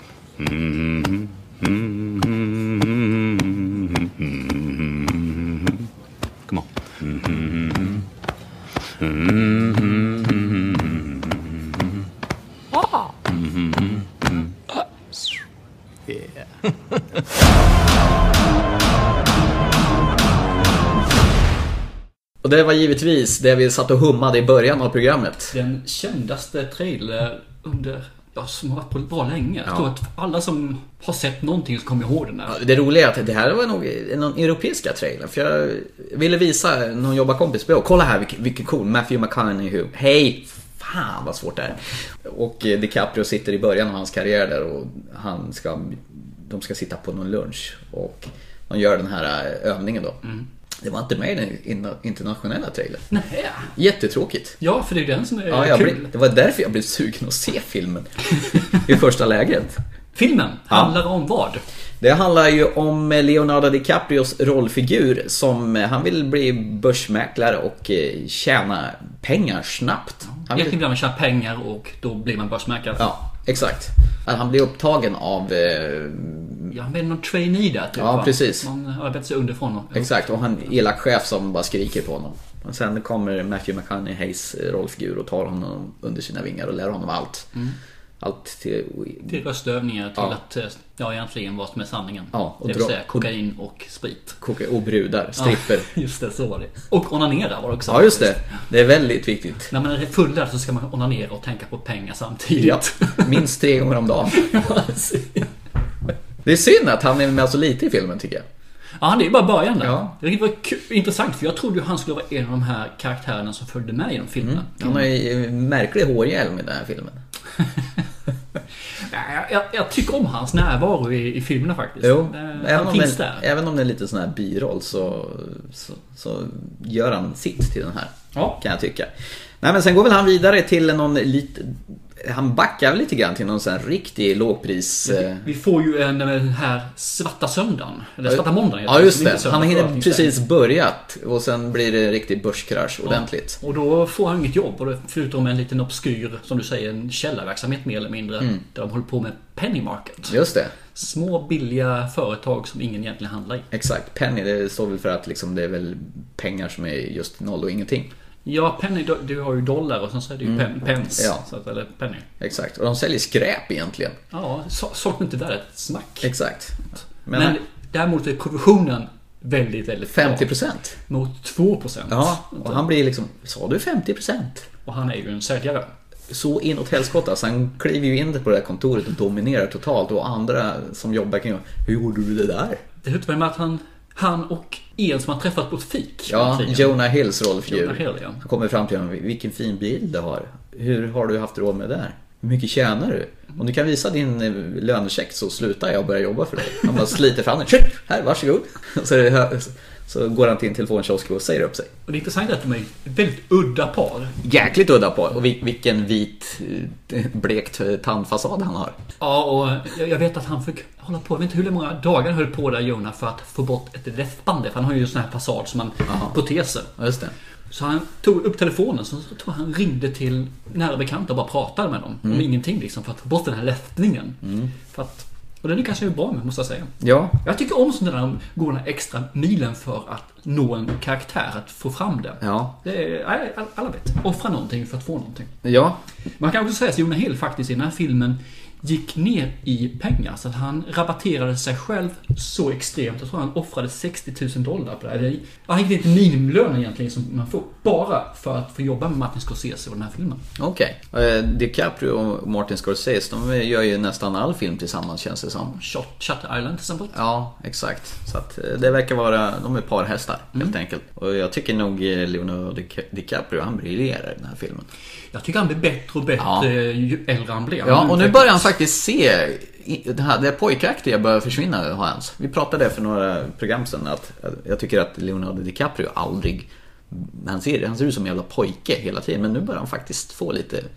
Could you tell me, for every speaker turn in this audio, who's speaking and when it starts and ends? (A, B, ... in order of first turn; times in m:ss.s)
0:00.4-0:05.8 A
0:06.5-0:08.0 A
0:09.0-0:11.8 A
0:13.3-0:14.5 A
0:22.4-0:25.5 B
0:25.5-0:32.6 C
0:32.5-0:50.2 B
0:50.8-0:53.0 B
0:53.1-0:53.7 C
0:53.7-0:54.6 B
0:54.6-0:56.1 C
0:55.5-0:59.8 B
1:00.1-1:01.6 C
1:00.7-1:01.0 B
1:02.0-1:10.8 B
1:10.3-1:13.1 C
1:13.0-1:16.7 B
1:16.7-1:20.2 C
1:18.0-1:18.6 B
1:19.9-1:27.5 B
1:28.2-1:29.4 B
1:29.3-1:34.4 C
1:32.3-1:33.3 B
1:34.4-1:35.9 B
1:35.4-1:38.4 C
1:37.9-1:39.7 B
1:39.7-1:43.3 C
1:42.6-1:44.5 B
1:44.3-1:45.5 C
1:46.4-1:48.4 B
1:49.0-1:55.1 C
1:49.8-1:50.1 B
1:54.4-1:57.2 B
1:59.0-2:03.4 C
2:02.0-2:15.5 B
2:08.3-2:08.6 C
2:15.0-2:20.4 C
2:18.3-2:23.6 B
2:23.0-2:30.4 C
2:30.3-2:30.7 B
2:30.9-2:33.7 C
2:33.7-2:38.1 B
2:38.4-2:42.3 C
2:40.4-2:41.4 B
2:42.4-2:44.2 B
2:44.3-2:46.3 C
2:46.2-2:47.6 B
2:47.3-2:50.5 C
2:50.1-2:50.9 B
2:51.1-2:52.8 C
2:52.1-2:54.6 B
2:54.8-2:55.9 C
2:56.3-3:02.8 B
3:03.0-3:06.9 C
3:06.3-3:21.9 B
3:07.7-3:08.4 C
3:22.1-3:24.4 C
3:24.4-3:29.0 B
3:29.2-3:36.9 C
3:36.1-3:36.4 B
3:37.0-3:37.3 B
3:37.7-3:55.5 C
3:44.4-3:44.7 B
3:47.0-3:47.4 B
3:52.4-3:52.8 B
3:55.6-3:56.0 B
3:56.4-4:10.4 C
4:10.6-4:15.8 B
4:15.7-4:17.2 C
4:17.1-4:24.9 B
4:25.3-4:28.7 C
4:26.4-4:26.7 B
4:27.8-4:40.9 B